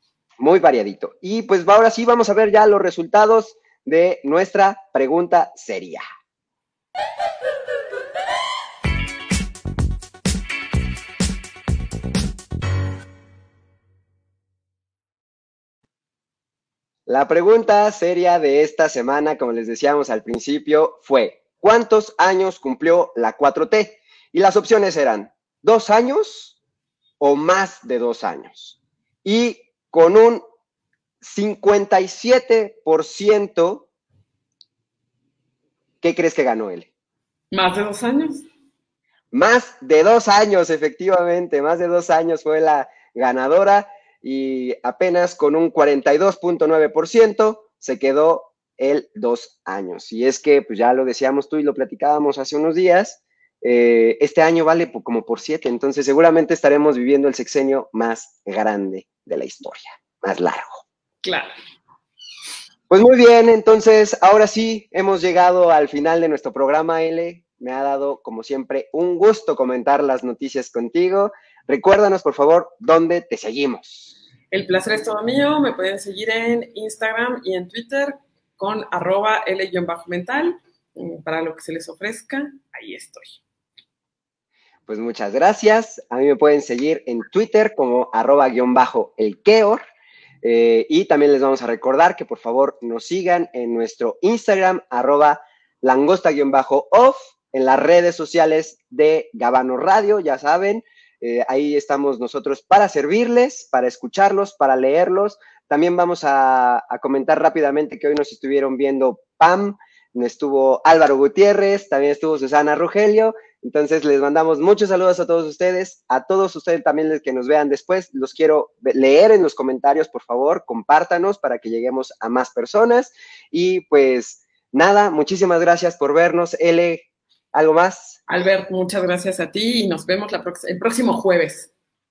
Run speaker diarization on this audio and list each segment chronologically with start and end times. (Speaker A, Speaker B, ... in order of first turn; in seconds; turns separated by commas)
Speaker A: 0.4-6.0, Speaker A: 17.1-26.6, Speaker A: 27.2-30.4, Speaker A: 31.2-33.9, Speaker A: 36.0-36.9, Speaker B: 37.5-38.5, Speaker A: 39.3-60.8, Speaker B: 61.2-61.5, Speaker A: 62.9-74.1, Speaker B: 74.5-83.4, Speaker A: 84.9-89.8, Speaker A: 90.4-128.2, Speaker B: 128.3-131.7